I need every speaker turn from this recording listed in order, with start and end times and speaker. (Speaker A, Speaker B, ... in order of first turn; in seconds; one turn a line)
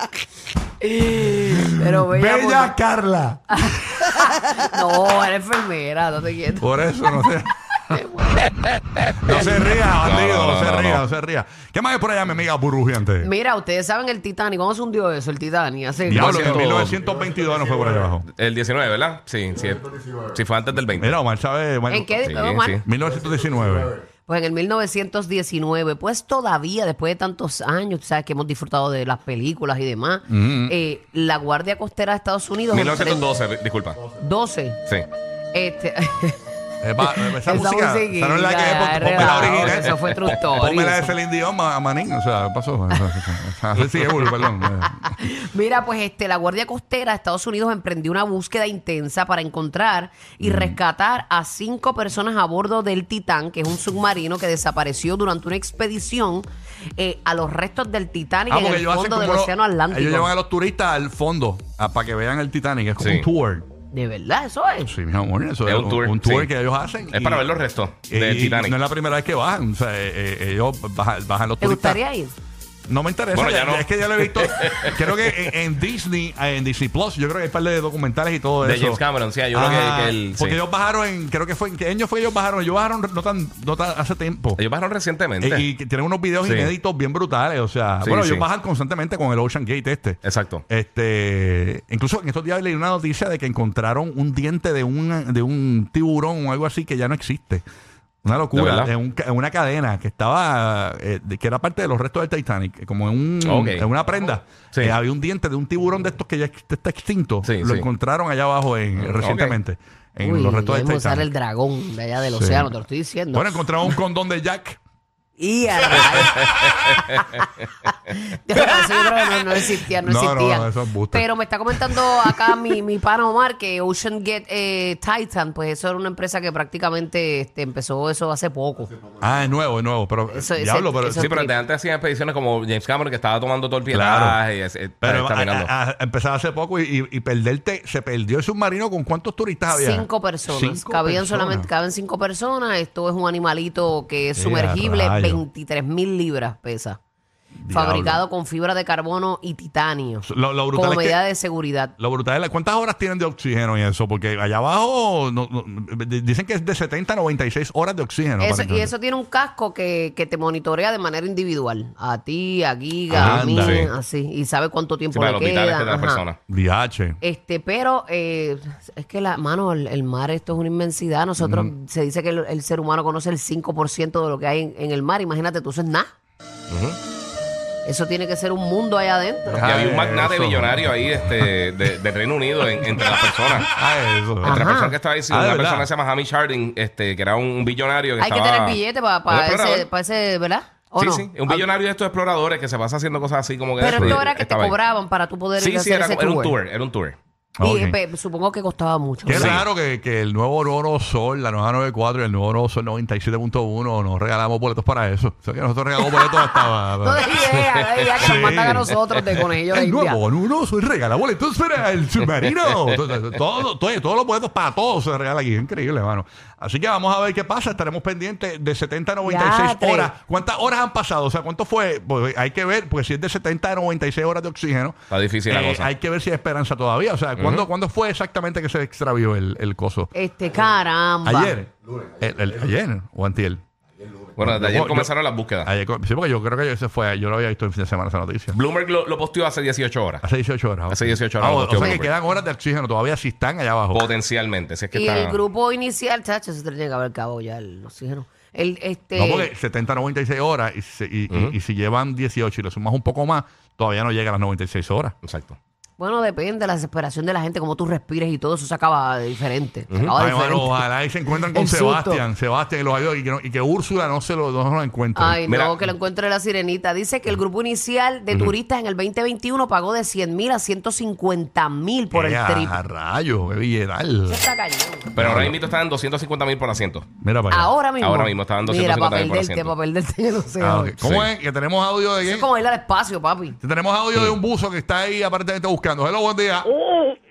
Speaker A: 0.8-2.7
Speaker B: 1.5-3.7
Speaker A: 3.5-6.9
Speaker B: 6.6-8.0
Speaker A: 7.9-9.5
Speaker B: 9.1-13.3
Speaker C: 10.0-11.0
Speaker A: 13.2-16.9
Speaker B: 16.1-18.2
Speaker C: 16.1-17.0
Speaker C: 18.3-21.1
Speaker B: 20.9-23.9
Speaker A: 21.9-22.8
Speaker C: 22.2-22.8
Speaker A: 24.3-33.3
Speaker B: 30.3-30.7
Speaker C: 32.7-34.0
Speaker A: 34.2-34.8
Speaker A: 35.5-36.4
Speaker B: 36.8-45.1
Speaker A: 37.0-41.2
Speaker C: 39.2-39.8
Speaker A: 42.9-43.2
Speaker C: 43.8-44.3
Speaker A: 44.8-56.5
Speaker B: 50.4-50.8
Speaker A: 57.0-60.3
Speaker B: 58.5-63.7
Speaker C: 63.0-63.2
Speaker A: 63.9-64.9
Speaker B: 64.8-67.5
Speaker C: 65.6-66.5
Speaker C: 67.1-68.8
Speaker B: 68.1-72.0
Speaker A: 71.6-72.3
Speaker B: 72.9-79.0
Speaker C: 73.3-75.3
Speaker C: 78.6-80.6
Speaker B: 79.5-84.6
Speaker C: 84.6-85.7
Speaker B: 85.4-97.6
Speaker C: 86.4-86.7
Speaker C: 88.0-88.5
Speaker C: 90.2-90.6
Speaker B: 98.2-111.3
Speaker C: 98.5-98.9
Speaker C: 103.4-103.8
Speaker C: 104.7-105.0
Speaker C: 107.4-107.9
Speaker C: 109.0-109.6
Speaker A: 110.2-113.7
Speaker B: 112.2-112.7
Speaker B: 113.3-114.8
Speaker A: 115.4-117.2
Speaker C: 115.9-117.4
Speaker A: 117.8-128.9
Speaker B: 120.0-122.4
Speaker B: 129.2-131.3
Speaker A: 130.3-131.6
Speaker C: 131.2-135.7
Speaker B: 133.9-134.4
Speaker B: 135.0-141.7
Speaker A: 139.7-147.0
Speaker B: 144.3-145.4
Speaker B: 147.6-148.2
Speaker A: 147.7-151.9
Speaker B: 150.2-151.2
Speaker B: 152.0-158.9
Speaker A: 158.4-166.2
Speaker B: 163.1-163.9
Speaker C: 163.1-163.9
Speaker C: 165.1-166.4
Speaker B: 166.5-167.2
Speaker A: 167.2-176.1
Speaker B: 171.4-171.7
Speaker C: 176.7-177.0
Speaker A: 177.8-179.6
Speaker B: 179.5-181.5
Speaker C: 179.6-183.7
Speaker B: 182.9-183.1
Speaker B: 183.7-184.7
Speaker C: 184.4-189.9
Speaker A: 184.4-184.9
Speaker B: 185.3-185.9
Speaker A: 188.2-191.7
Speaker C: 191.0-194.8
Speaker A: 193.8-196.5
Speaker B: 193.9-194.2
Speaker C: 195.6-197.2
Speaker B: 197.6-198.0
Speaker A: 197.6-199.6
Speaker B: 199.2-207.5
Speaker C: 199.3-199.6
Speaker A: 206.1-210.2
Speaker B: 208.2-230.1
Speaker A: 219.2-220.1
Speaker C: 225.1-225.9
Speaker C: 227.4-227.7
Speaker A: 230.1-231.6
Speaker B: 231.2-233.6
Speaker C: 234.4-235.7
Speaker B: 234.4-235.1
Speaker B: 235.6-238.6
Speaker C: 238.5-240.2
Speaker B: 240.2-244.1
Speaker C: 240.9-242.1
Speaker A: 241.8-242.1
Speaker C: 243.9-245.4
Speaker A: 244.9-249.5
Speaker B: 249.2-255.1
Speaker C: 251.3-251.5
Speaker C: 255.2-255.6
Speaker A: 256.0-262.2
Speaker C: 259.9-260.1
Speaker B: 260.1-265.4
Speaker A: 265.1-272.8
Speaker C: 265.4-265.8
Speaker B: 272.1-274.4
Speaker A: 274.3-275.1
Speaker C: 275.1-277.1
Speaker B: 275.1-275.6
Speaker B: 277.2-277.7
Speaker A: 277.5-281.0
Speaker C: 278.0-279.7
Speaker B: 280.6-282.5
Speaker C: 281.0-281.3
Speaker A: 282.2-283.6
Speaker B: 283.6-286.7